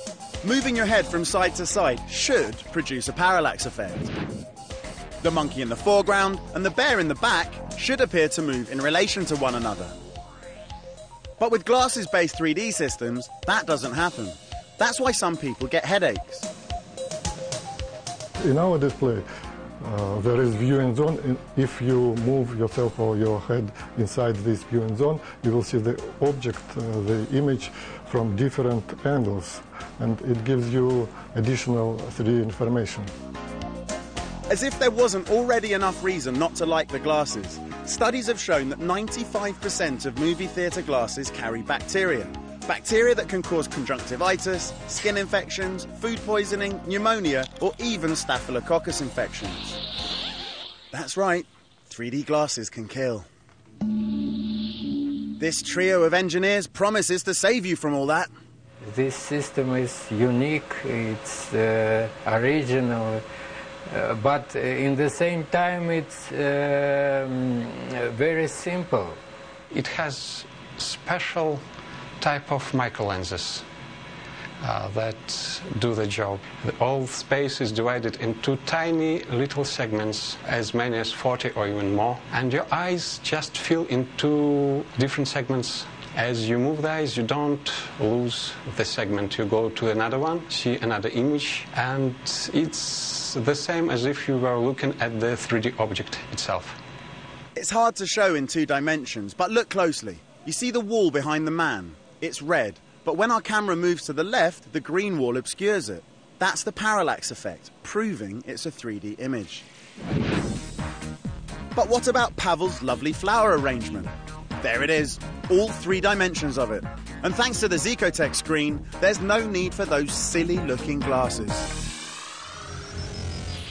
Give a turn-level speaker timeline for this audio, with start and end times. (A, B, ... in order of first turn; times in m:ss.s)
0:00.4-0:04.1 A
0:05.2-0:09.9 A
0:11.4-0:16.5 A
0:18.4-0:19.2 B
0:19.8-0:33.1 B
0:34.5-0:49.8 A
0:50.9-0:53.3 A
0:55.4-0:58.3 A
0:58.8-1:03.2 C
1:03.9-1:09.2 C
1:09.7-1:11.6 D
1:12.2-1:13.6 D
1:14.6-1:36.8 D
1:37.6-1:49.7 A
1:51.8-2:01.7 A